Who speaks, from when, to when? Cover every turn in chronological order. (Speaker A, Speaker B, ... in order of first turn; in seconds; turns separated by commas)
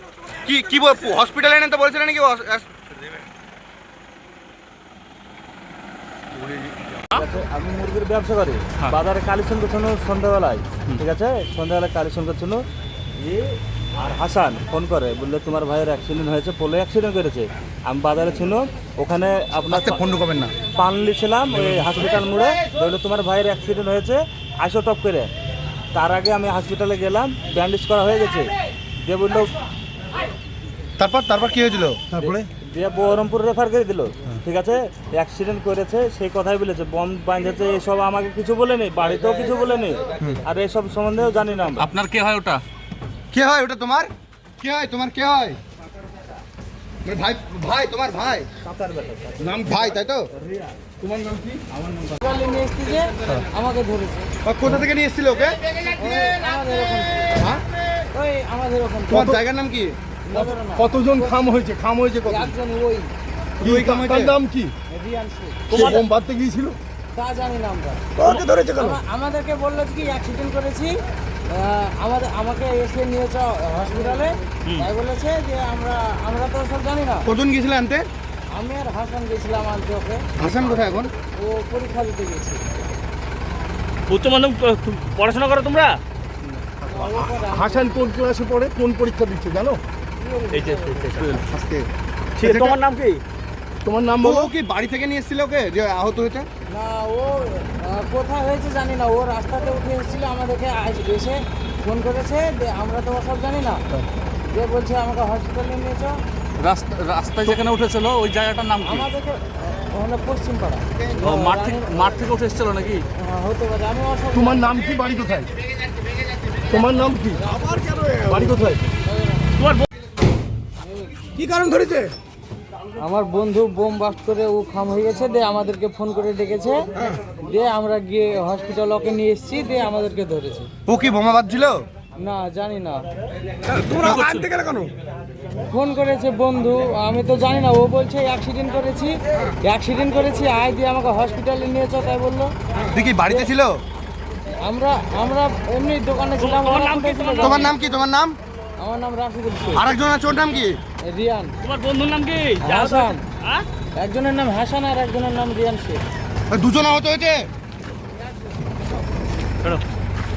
Speaker A: 0.4-2.7, Speaker B: 7.1-12.6, Speaker B: 13.2-20.0, Speaker A: 20.2-20.5, Speaker B: 20.7-25.3, Speaker B: 25.9-28.5, Speaker B: 29.0-29.5, Speaker A: 31.0-32.1, Speaker C: 32.1-32.4, Speaker B: 32.1-41.9, Speaker D: 41.8-42.6, Speaker A: 43.3-45.6, Speaker A: 47.0-48.5, Speaker B: 48.6-49.5, Speaker A: 49.5-50.3, Speaker C: 51.0-51.6, Speaker E: 52.2-54.3, Speaker A: 54.4-55.6, Speaker E: 56.0-57.5, Speaker E: 58.1-59.3, Speaker C: 59.1-59.4, Speaker A: 59.1-60.0, Speaker E: 60.2-61.2, Speaker C: 60.3-62.5, Speaker E: 62.2-63.1, Speaker A: 63.6-64.3, Speaker C: 63.6-64.7, Speaker E: 64.9-66.0, Speaker C: 65.7-66.8, Speaker F: 65.7-66.0, Speaker E: 67.1-68.0, Speaker F: 68.2-68.5, Speaker C: 68.2-69.0, Speaker E: 68.7-71.0, Speaker E: 71.5-77.3, Speaker A: 77.2-78.0, Speaker E: 78.5-80.2, Speaker A: 80.4-81.1, Speaker E: 81.3-82.6, Speaker F: 84.1-86.0, Speaker C: 86.8-89.8, Speaker E: 86.9-87.9, Speaker E: 90.2-91.2, Speaker F: 90.5-91.4, Speaker C: 91.2-92.8, Speaker F: 92.4-93.2, Speaker A: 92.4-92.7, Speaker C: 93.8-94.5, Speaker A: 94.2-96.5, Speaker E: 96.7-103.8, Speaker E: 104.5-106.2, Speaker D: 106.6-109.1, Speaker E: 108.8-112.2, Speaker D: 111.2-113.0, Speaker E: 113.2-114.7, Speaker C: 114.3-115.5, Speaker C: 116.6-117.5, Speaker E: 117.3-118.4, Speaker C: 118.1-118.8, Speaker E: 119.0-119.5, Speaker E: 120.8-121.3, Speaker E: 123.0-126.8, Speaker E: 127.4-130.7, Speaker A: 130.9-131.8, Speaker E: 132.2-133.0, Speaker A: 133.9-134.8, Speaker D: 133.9-134.5, Speaker E: 135.7-142.5, Speaker A: 142.9-143.8, Speaker E: 144.6-147.7, Speaker F: 146.4-147.6, Speaker A: 147.4-148.4, Speaker E: 148.8-149.9, Speaker A: 149.7-150.8, Speaker E: 151.0-151.5, Speaker F: 151.6-153.6, Speaker E: 152.6-153.2, Speaker E: 153.9-156.0, Speaker A: 156.5-157.5